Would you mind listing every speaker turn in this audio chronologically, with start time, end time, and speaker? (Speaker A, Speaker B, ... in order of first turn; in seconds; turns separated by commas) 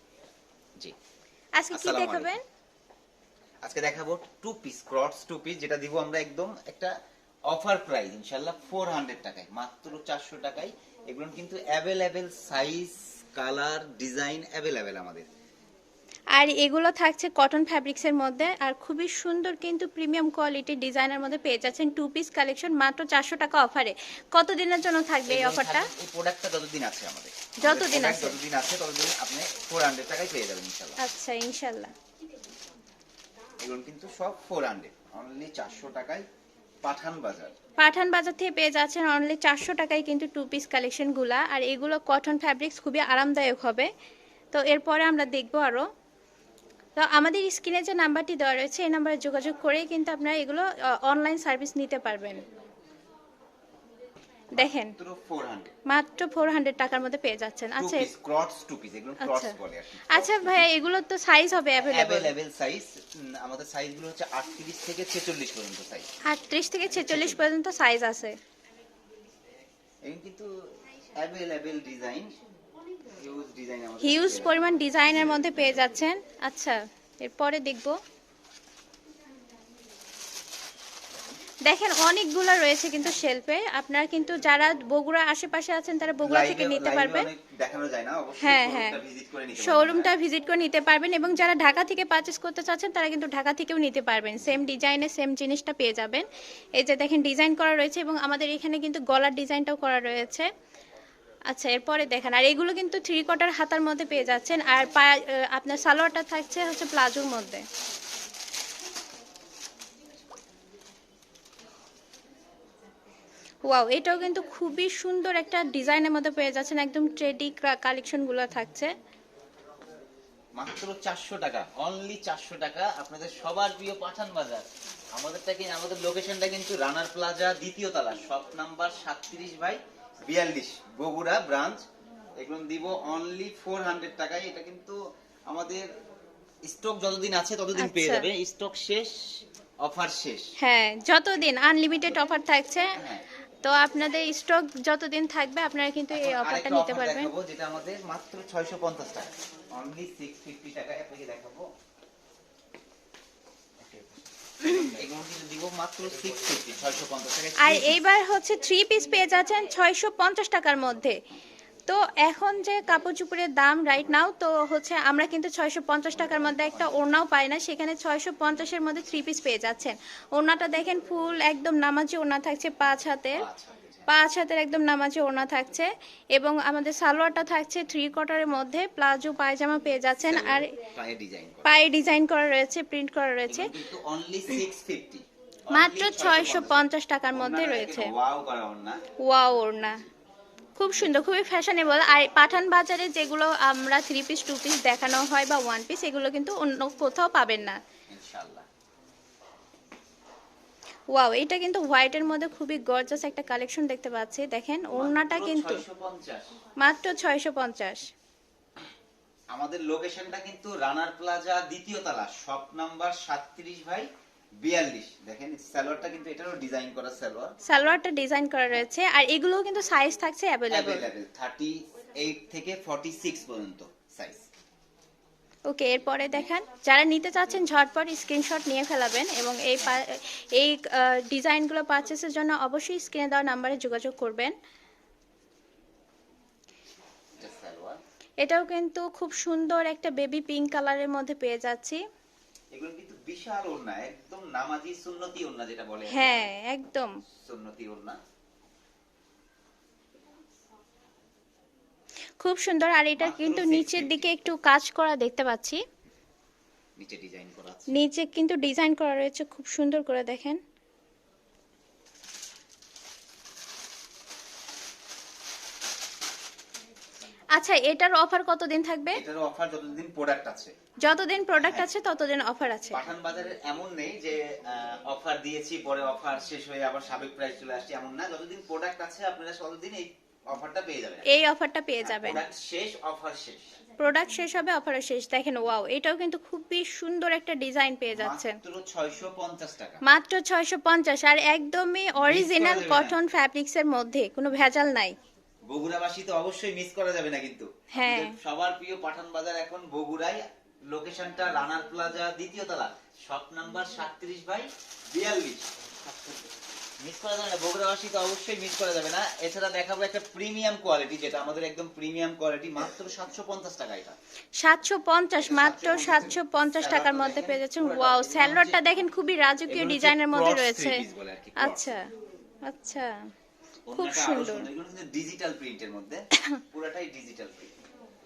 Speaker A: 1.6-2.4, Speaker B: 1.7-2.4, Speaker B: 3.6-6.9, Speaker B: 7.5-15.3, Speaker A: 16.3-25.9, Speaker B: 25.3-31.0, Speaker A: 27.6-28.4, Speaker A: 31.0-31.9, Speaker B: 33.6-36.2, Speaker B: 36.8-37.5, Speaker A: 37.8-43.9, Speaker A: 44.5-45.9, Speaker A: 47.0-52.4, Speaker A: 54.5-55.0, Speaker B: 54.6-55.7, Speaker A: 55.9-58.1, Speaker B: 57.8-60.7, Speaker A: 59.2-59.6, Speaker A: 60.1-62.3, Speaker B: 61.8-66.1, Speaker A: 66.3-68.3, Speaker B: 66.8-67.5, Speaker B: 70.0-72.3, Speaker B: 73.1-76.0, Speaker A: 74.0-78.0, Speaker A: 81.7-87.3, Speaker B: 86.2-90.1, Speaker A: 88.4-89.0, Speaker A: 89.6-100.5, Speaker A: 101.5-107.6, Speaker A: 113.7-118.9, Speaker B: 120.5-131.8, Speaker B: 132.4-135.9, Speaker B: 136.7-140.5, Speaker A: 137.8-138.3, Speaker A: 140.6-143.0, Speaker B: 143.0-143.2, Speaker A: 143.6-147.3, Speaker B: 146.1-151.7, Speaker B: 154.6-158.0, Speaker A: 157.6-161.2, Speaker A: 161.9-173.4, Speaker B: 166.3-167.0, Speaker B: 173.3-174.1, Speaker A: 174.1-180.7, Speaker B: 180.3-181.7, Speaker A: 181.7-183.7, Speaker B: 183.5-189.0, Speaker A: 185.7-188.1, Speaker A: 189.2-190.1, Speaker A: 190.8-197.8, Speaker B: 198.1-198.7, Speaker A: 201.1-205.8, Speaker B: 204.9-206.5, Speaker A: 206.8-208.1, Speaker B: 209.5-214.1, Speaker B: 214.6-217.6, Speaker A: 217.7-221.0, Speaker B: 220.7-224.5, Speaker A: 225.7-234.5, Speaker B: 237.4-238.0, Speaker A: 238.4-242.0, Speaker B: 242.7-246.5, Speaker A: 246.1-247.1, Speaker B: 247.4-248.2, Speaker A: 252.4-255.8, Speaker B: 253.2-254.3, Speaker B: 257.0-257.9, Speaker A: 257.9-260.6, Speaker A: 267.5-269.2, Speaker B: 269.1-270.7, Speaker A: 271.0-273.0, Speaker B: 271.6-271.9, Speaker B: 272.9-281.3, Speaker A: 281.3-282.4, Speaker B: 282.0-283.8, Speaker A: 284.0-288.6, Speaker B: 288.1-290.0, Speaker A: 290.0-295.1, Speaker B: 292.2-293.2, Speaker B: 295.7-305.7, Speaker A: 297.9-298.4, Speaker B: 307.0-314.2, Speaker A: 314.6-321.0, Speaker B: 315.4-318.8, Speaker B: 319.7-322.0, Speaker A: 321.6-322.1, Speaker A: 322.6-323.2, Speaker B: 323.9-327.7, Speaker A: 323.9-324.7